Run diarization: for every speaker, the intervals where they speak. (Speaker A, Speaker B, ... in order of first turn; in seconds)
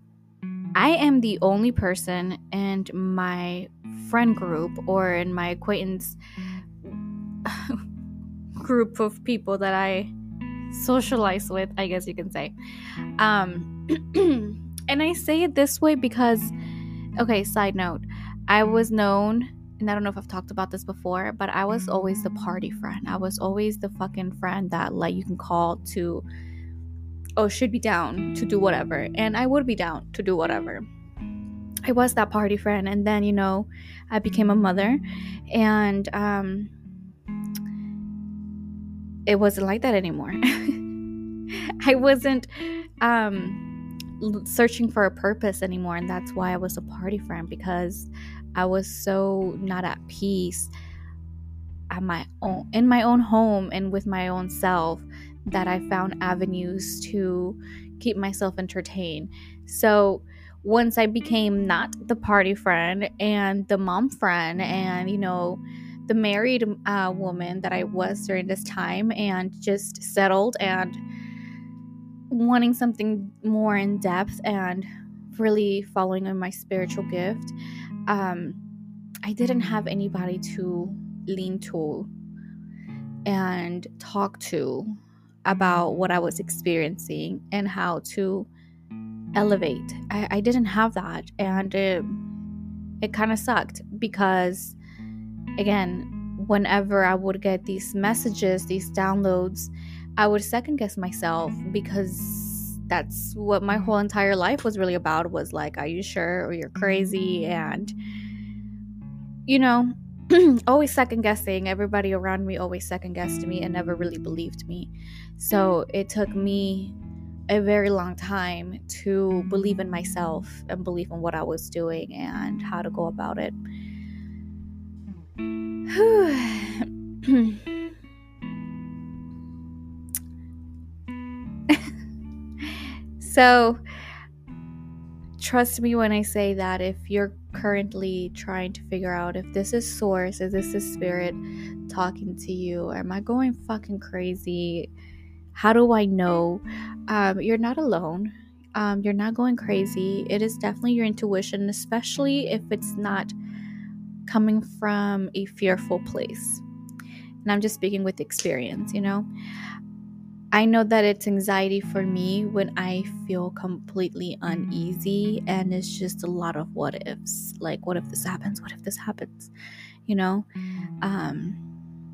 Speaker A: 0.7-6.2, 7.4-7.8, 8.6-10.1, 10.7-12.5, 13.2-16.5, 17.2-26.2, 27.4-30.8, 31.8-36.7, 39.2-40.8, 41.5-43.6, 44.2-50.7, 51.9-71.0, 72.3-77.5, 78.1-78.6, 79.2-82.1, 83.2-88.5, 89.3-92.2, 93.0-94.8, 95.6-107.9, 109.5-116.9, 117.5-123.5, 125.9-127.7, 132.6-133.8, 135.4-144.9, 145.5-153.3, 154.2-156.6, 157.4-159.3, 160.5-169.5, 170.1-170.5, 171.0-171.6